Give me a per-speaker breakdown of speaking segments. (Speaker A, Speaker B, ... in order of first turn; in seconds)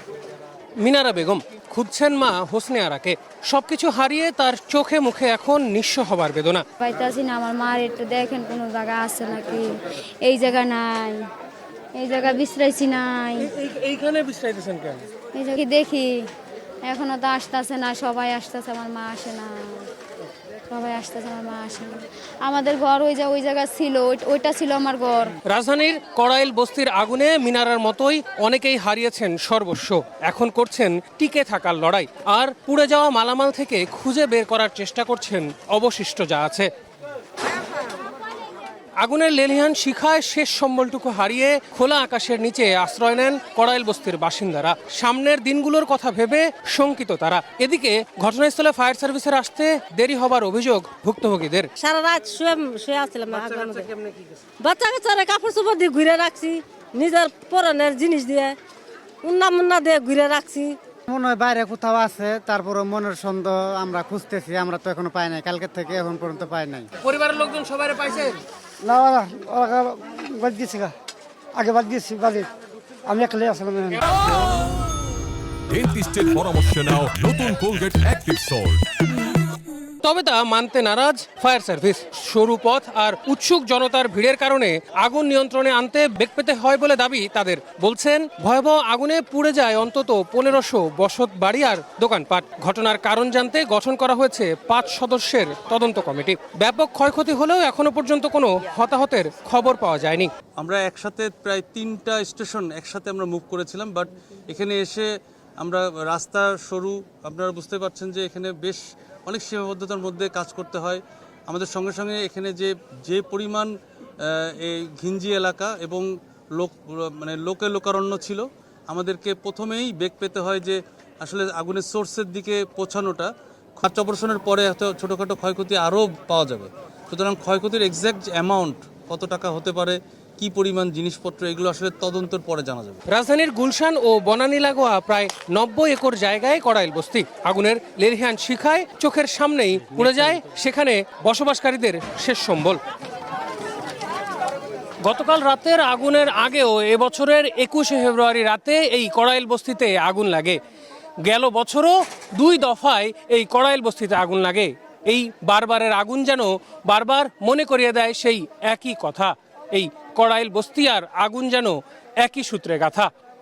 Speaker A: 0.8-6.7, 13.4-15.1, 25.5-36.7, 39.0-51.7, 67.0-68.4, 80.0-100.3, 133.1-142.8, 145.0-150.6, 151.2-163.1
Speaker B: 6.8-11.3, 11.9-13.5, 15.3-16.3, 16.8-19.9, 20.7-25.4
Speaker C: 51.8-58.6, 59.2-60.8
Speaker D: 61.1-66.9
Speaker E: 68.8-70.9, 71.6-72.5, 73.1-74.1
Speaker F: 75.7-78.8
Speaker G: 100.6-105.1, 105.6-123.3, 123.8-133.0